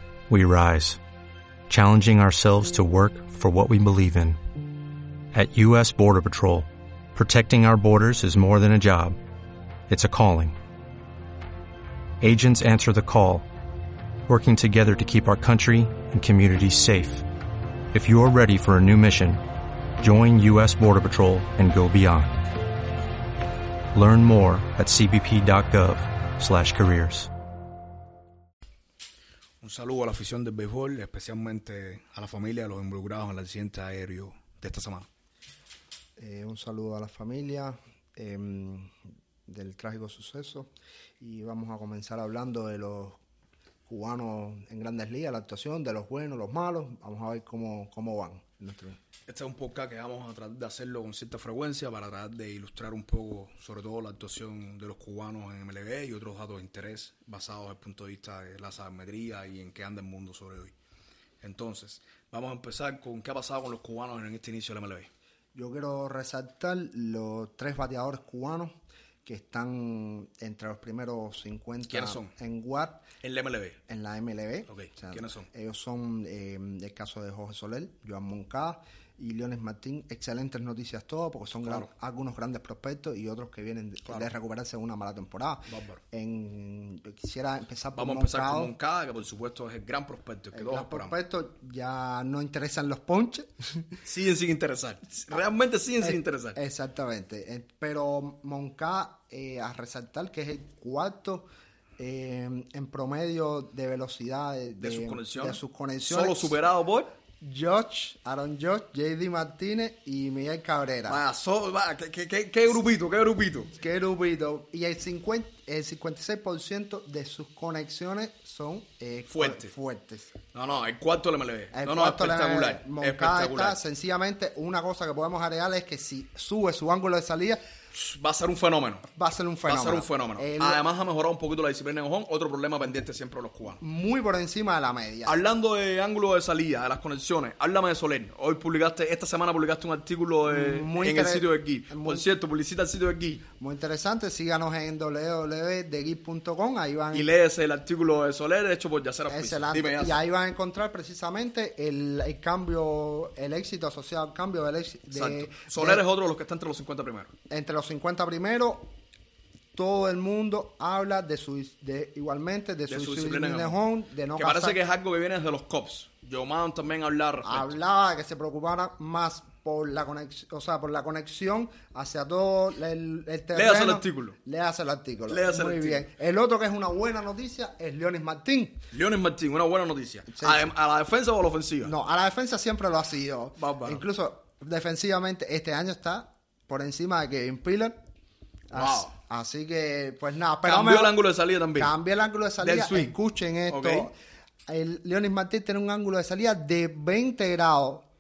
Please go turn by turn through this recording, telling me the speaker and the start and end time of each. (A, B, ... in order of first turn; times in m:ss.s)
0:00.3-0:01.0 A
0:01.7-0:04.4 A
0:05.3-0:09.2 A
0:09.9-0:10.6 A
0:12.2-0:13.5 A
0:14.3-0:17.2 A
0:17.9-0:19.4 A
0:20.0-0:22.4 A
0:23.9-0:27.3 A
0:29.6-0:35.1 B
0:36.2-0:38.9 C
0:39.5-0:43.2 C
0:43.9-0:49.0 C
0:49.3-1:00.8 B
1:01.4-1:05.1 B
1:05.6-1:13.0 C
1:11.9-1:12.3 B
1:13.2-1:13.8 B
1:13.9-1:28.7 C
1:14.7-1:15.5 B
1:24.0-1:24.3 B
1:25.7-1:26.0 B
1:28.0-1:31.1 B
1:30.5-1:34.0 C
1:34.0-1:36.6 B
1:36.0-1:46.6 C
1:44.8-1:47.1 B
1:47.4-1:51.2 C
1:51.1-1:53.7 B
1:53.7-2:00.3 C
1:59.3-1:59.7 B
2:00.5-2:03.8 B
2:01.7-2:07.6 C
2:07.9-2:09.1 B
2:09.1-2:10.8 C
2:09.7-2:13.8 B
2:13.8-2:15.4 C
2:15.2-2:23.4 B
2:20.5-2:22.3 C
2:23.6-2:27.3 C
2:27.1-2:30.2 B
2:29.3-2:36.0 C
2:35.1-2:37.3 B
2:37.5-2:38.9 C
2:39.7-2:44.8 C
2:42.9-2:43.8 B
2:44.4-2:47.7 B
2:47.4-2:58.8 C
2:53.5-2:54.4 B
2:55.3-2:56.0 B
2:58.9-3:01.9 B
3:00.3-3:00.7 C
3:01.8-3:08.0 C
3:03.6-3:04.0 B
3:08.7-3:11.2 C
3:08.7-3:09.1 B
3:10.7-3:11.9 B
3:11.8-3:14.1 C
3:12.6-3:13.1 B
3:13.7-3:14.1 B
3:14.7-3:18.1 C